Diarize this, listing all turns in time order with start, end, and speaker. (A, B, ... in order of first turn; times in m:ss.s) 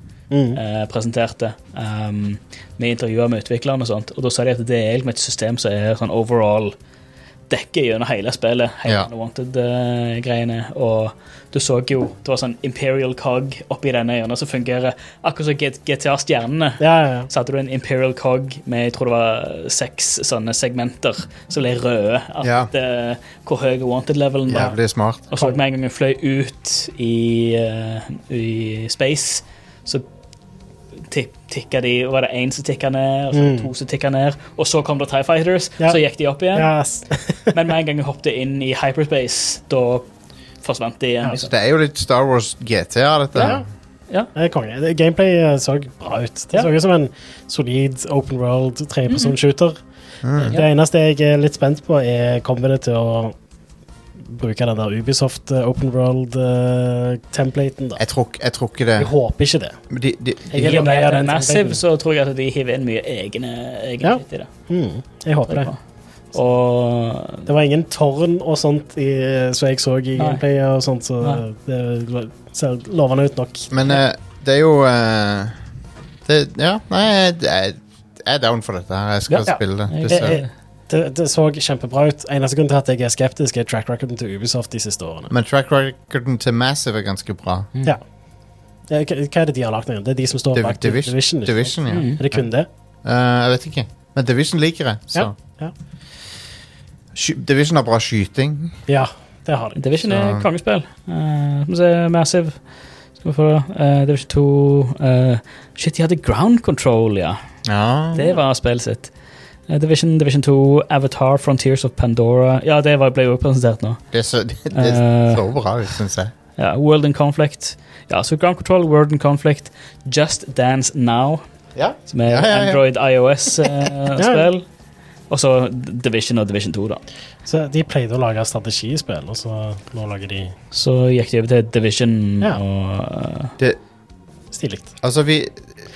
0:00.3-0:00.6 A
0:00.5-0:06.7 B
0:07.5-0:24.8 B
0:16.8-0:17.3 A
0:22.4-0:22.7 C
0:24.5-0:25.2 C
0:25.3-0:30.0 B
0:31.1-0:36.7 B
0:33.3-0:33.7 A
0:36.5-0:37.5 A
0:37.5-0:40.1 B
0:40.6-0:41.5 B
0:41.4-0:43.6 C
0:43.3-0:43.6 A
0:44.3-0:49.8 A
0:49.1-0:49.3 B
0:50.2-0:50.6 C
0:50.4-0:53.3 A
0:54.2-0:58.0 A
0:58.0-0:59.1 C
0:59.0-0:59.8 A
0:59.9-1:00.9 C
1:00.5-1:01.8 A
1:00.5-1:04.5 B
1:04.0-1:05.7 A
1:05.5-1:05.8 B
1:06.3-1:07.5 B
1:07.4-1:13.7 A
1:13.7-1:15.6 C
1:16.2-1:20.4 C
1:19.3-1:20.5 B
1:19.4-1:25.3 A
1:25.3-1:27.7 C
1:28.9-1:32.7 A
1:30.5-1:32.4 C
1:31.9-1:32.2 B
1:33.0-1:35.3 C
1:35.1-1:35.7 A
1:37.1-1:38.8 C
1:38.9-1:39.8 A
1:39.8-1:42.6 B
1:40.0-1:40.4 C
1:43.2-1:47.4 B
1:47.6-1:48.4 C
1:48.1-1:49.1 B
1:49.7-1:54.0 B
1:54.1-1:56.3 C
1:54.7-1:55.4 B
1:56.6-2:01.4 B
2:01.7-2:02.8 C
2:02.1-2:04.6 B
2:04.2-2:04.5 A
2:05.3-2:07.0 B
2:07.4-2:10.5 A
2:10.7-2:13.5 B
2:14.5-2:14.9 A
2:15.0-2:15.6 C